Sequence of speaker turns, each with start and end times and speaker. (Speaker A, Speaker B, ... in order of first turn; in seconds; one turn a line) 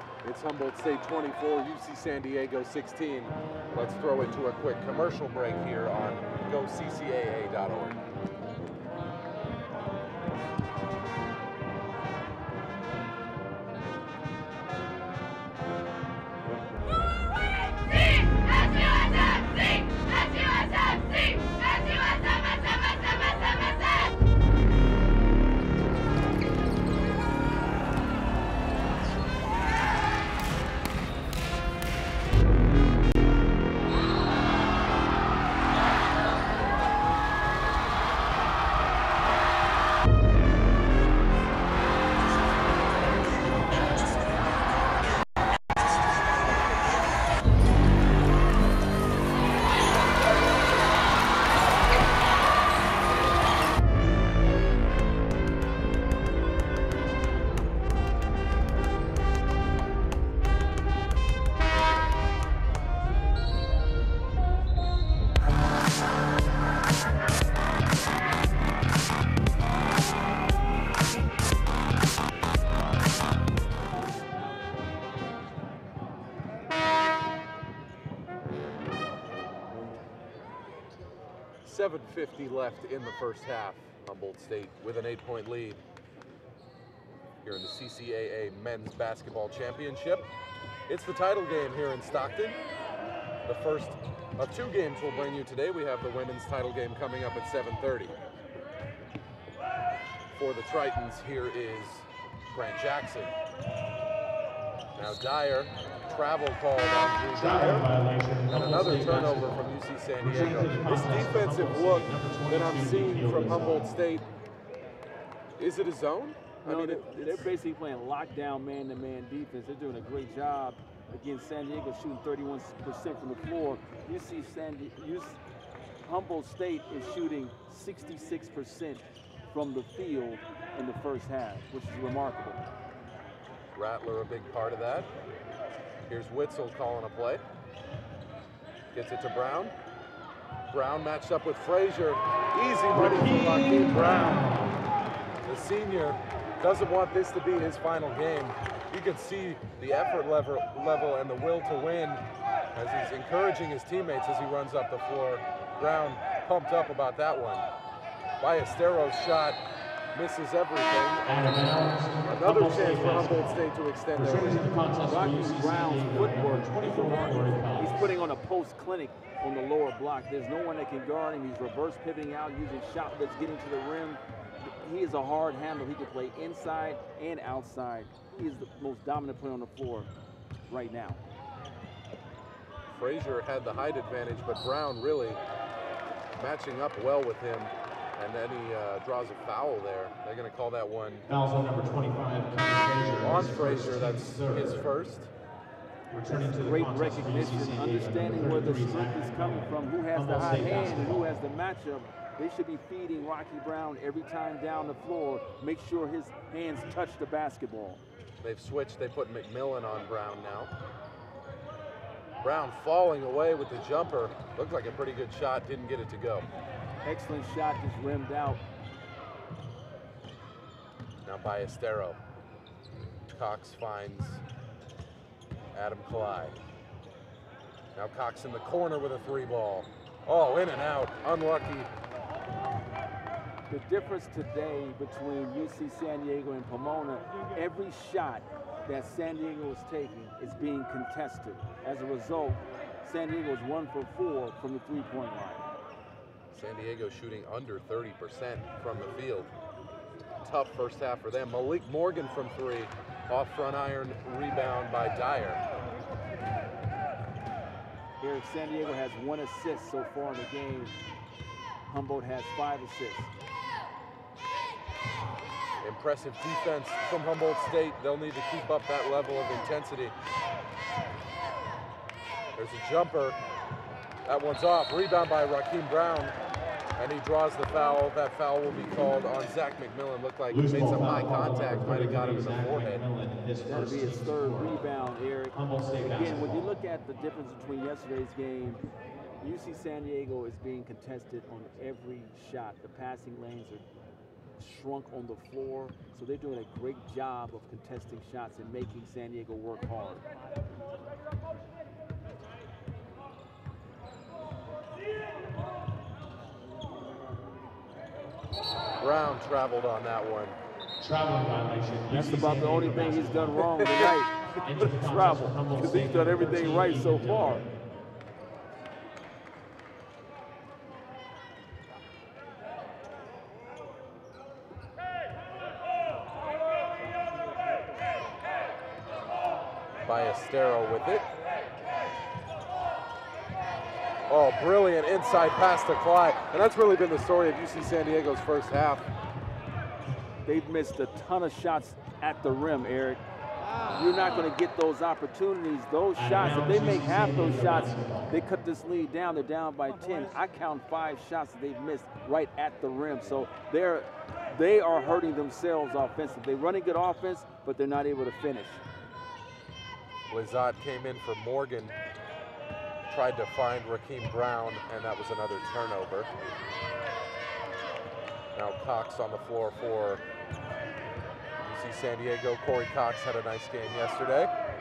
Speaker A: 0.2-8.0
Speaker A: 81.6-85.8
Speaker A: 87.4-90.2
Speaker A: 90.9-92.6
Speaker A: 93.5-98.1
Speaker A: 100.3-103.3
Speaker A: 105.0-107.9
Speaker B: 107.3-109.6
Speaker A: 108.5-114.3
Speaker B: 110.2-113.9
Speaker A: 115.6-117.5
Speaker C: 116.7-125.4
Speaker C: 126.1-132.6
Speaker A: 133.8-135.1
Speaker A: 136.1-137.4
Speaker A: 138.9-139.7
Speaker A: 140.7-144.4
Speaker B: 142.9-144.8
Speaker A: 145.4-152.2
Speaker A: 152.8-157.7
Speaker A: 158.4-159.6
Speaker A: 160.2-161.6
Speaker B: 161.3-163.5
Speaker A: 162.2-164.7
Speaker B: 164.1-168.1
Speaker C: 165.1-180.1
Speaker C: 180.7-181.2
Speaker A: 182.9-185.4
Speaker A: 186.4-191.3
Speaker B: 191.3-194.9
Speaker A: 193.2-195.3
Speaker B: 196.1-201.2
Speaker C: 196.3-208.0
Speaker A: 208.4-210.7
Speaker A: 212.4-216.5
Speaker C: 217.0-218.6
Speaker A: 221.2-222.2
Speaker A: 223.3-224.4
Speaker A: 225.7-226.6
Speaker A: 228.0-231.9
Speaker C: 233.7-245.6
Speaker A: 246.5-249.5
Speaker A: 250.4-255.6
Speaker C: 258.2-261.0
Speaker C: 261.9-263.3
Speaker A: 265.8-270.1
Speaker A: 272.6-273.4
Speaker A: 274.3-276.3
Speaker A: 277.0-283.1
Speaker B: 280.5-284.8
Speaker C: 283.7-288.8
Speaker B: 285.5-286.6
Speaker C: 289.4-293.9
Speaker C: 294.6-300.2
Speaker A: 309.0-310.6
Speaker B: 311.0-313.6
Speaker C: 312.1-317.6
Speaker A: 313.6-314.1
Speaker B: 314.6-317.6
Speaker A: 330.1-331.2
Speaker A: 334.3-339.1
Speaker C: 340.5-343.2
Speaker C: 343.9-358.8
Speaker B: 346.2-348.3
Speaker A: 360.3-361.9
Speaker A: 363.1-366.3
Speaker A: 368.6-370.2
Speaker A: 371.6-374.5